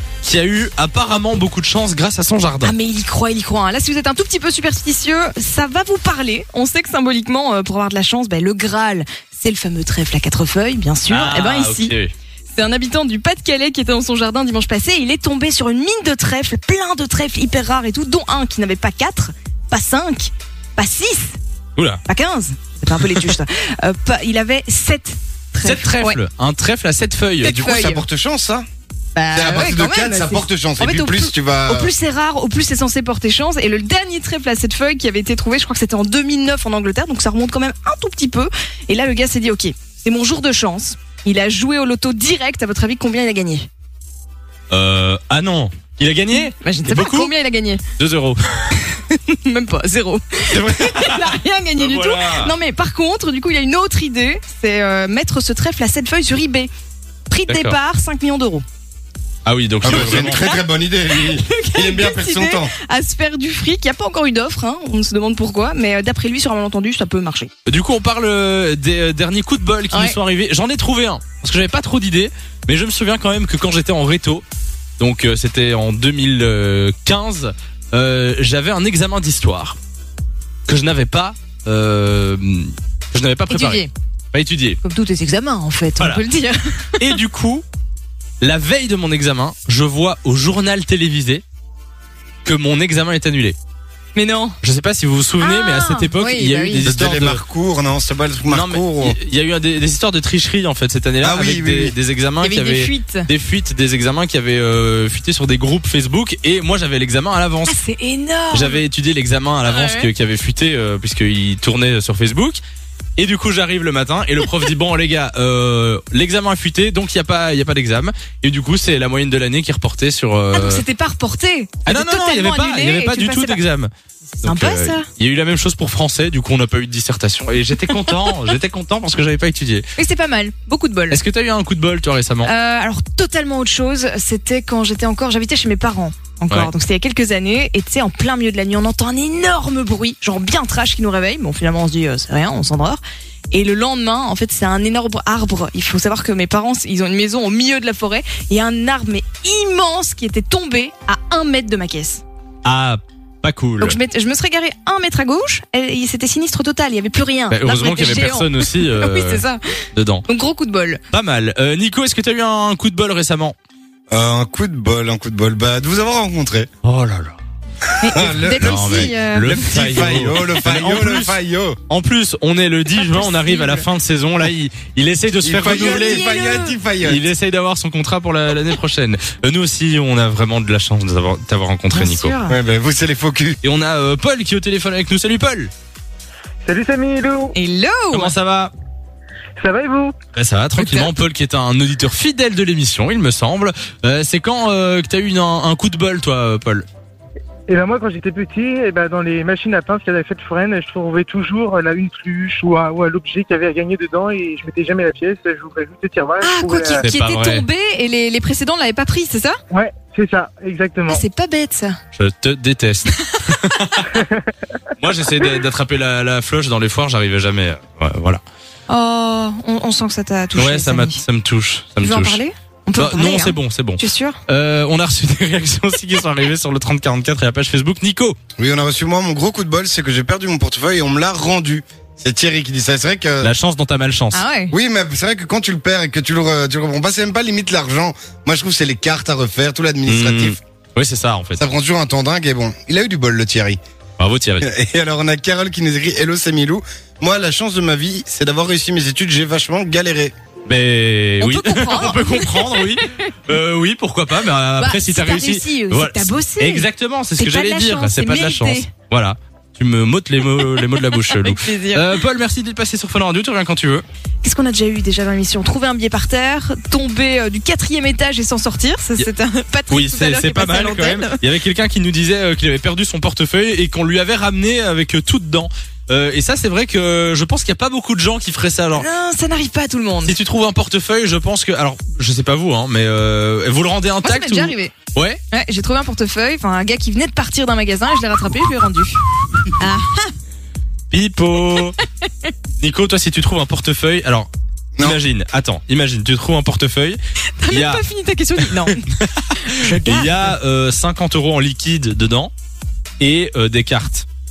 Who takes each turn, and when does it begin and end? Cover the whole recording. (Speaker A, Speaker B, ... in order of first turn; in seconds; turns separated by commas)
Speaker A: 0.2-2.7, Speaker B: 2.6-11.9, Speaker A: 11.1-12.1, Speaker B: 12.6-21.4, Speaker A: 21.8-22.0, Speaker B: 22.1-26.2, Speaker A: 25.6-27.6, Speaker B: 27.4-28.1, Speaker C: 27.5-28.6, Speaker B: 29.1-43.7, Speaker C: 29.3-31.9, Speaker A: 44.7-47.3, Speaker B: 46.4-47.8, Speaker A: 48.0-48.4, Speaker B: 48.7-56.7, Speaker A: 50.5-52.5, Speaker B: 57.3-58.6, Speaker A: 57.5-57.8, Speaker A: 59.5-60.4, Speaker C: 59.8-62.7, Speaker B: 60.2-67.5, Speaker A: 67.7-74.4, Speaker B: 69.9-70.2, Speaker A: 75.0-79.8, Speaker A: 80.7-84.8, Speaker B: 83.5-83.9, Speaker B: 84.8-87.2, Speaker A: 86.0-86.2, Speaker A: 87.0-87.6, Speaker A: 88.4-91.4, Speaker A: 92.4-93.6, Speaker B: 94.2-94.6, Speaker A: 94.6-97.4, Speaker B: 95.4-96.9, Speaker C: 96.9-99.2, Speaker A: 98.5-107.8, Speaker C: 101.2-102.0, Speaker B: 102.4-103.3, Speaker B: 107.7-108.8, Speaker A: 108.5-112.6, Speaker B: 109.6-110.1, Speaker A: 113.2-120.8, Speaker B: 120.5-123.6, Speaker A: 121.9-123.9, Speaker A: 124.4-129.8, Speaker B: 124.5-125.1, Speaker B: 130.0-131.2, Speaker A: 131.1-132.5, Speaker B: 132.4-152.2, Speaker A: 152.7-154.0, Speaker B: 153.8-159.6, Speaker A: 157.5-160.3, Speaker B: 160.3-161.0, Speaker A: 161.1-163.6, Speaker C: 164.1-166.7, Speaker A: 166.8-167.4, Speaker B: 168.0-169.5, Speaker C: 168.0-171.8, Speaker A: 168.6-176.3, Speaker B: 172.9-173.8, Speaker C: 175.4-177.3, Speaker B: 175.6-176.8, Speaker A: 177.0-182.4, Speaker B: 181.9-182.6, Speaker C: 182.5-183.6, Speaker A: 183.6-185.7, Speaker D: 186.6-187.6, Speaker B: 187.6-188.3, Speaker A: 188.1-188.7, Speaker D: 189.6-190.2, Speaker A: 190.3-196.9, Speaker B: 190.8-191.1, Speaker D: 197.7-207.1, Speaker B: 206.4-209.6, Speaker A: 207.0-207.7, Speaker D: 209.7-211.2, Speaker B: 211.1-212.0, Speaker A: 212.2-214.2, Speaker B: 213.1-213.4, Speaker D: 214.1-214.4, Speaker A: 215.0-218.4, Speaker B: 218.9-221.2, Speaker A: 220.6-222.4, Speaker B: 222.0-224.4, Speaker A: 222.9-228.4, Speaker C: 228.6-233.5, Speaker A: 233.4-234.4, Speaker B: 234.3-234.7, Speaker C: 234.7-240.6, Speaker A: 240.1-241.7, Speaker C: 241.6-243.8, Speaker A: 244.2-244.7, Speaker C: 244.6-250.3, Speaker A: 250.7-264.1, Speaker B: 251.4-253.3, Speaker B: 254.8-258.9, Speaker B: 260.6-262.2, Speaker B: 264.4-271.4, Speaker A: 269.9-279.1, Speaker B: 279.0-280.4, Speaker A: 280.2-285.4, Speaker B: 284.2-284.9, Speaker B: 285.5-289.2, Speaker B: 289.8-290.3, Speaker A: 291.1-292.0, Speaker A: 292.8-298.0, Speaker B: 297.6-300.5, Speaker A: 298.6-302.5, Speaker A: 303.2-304.3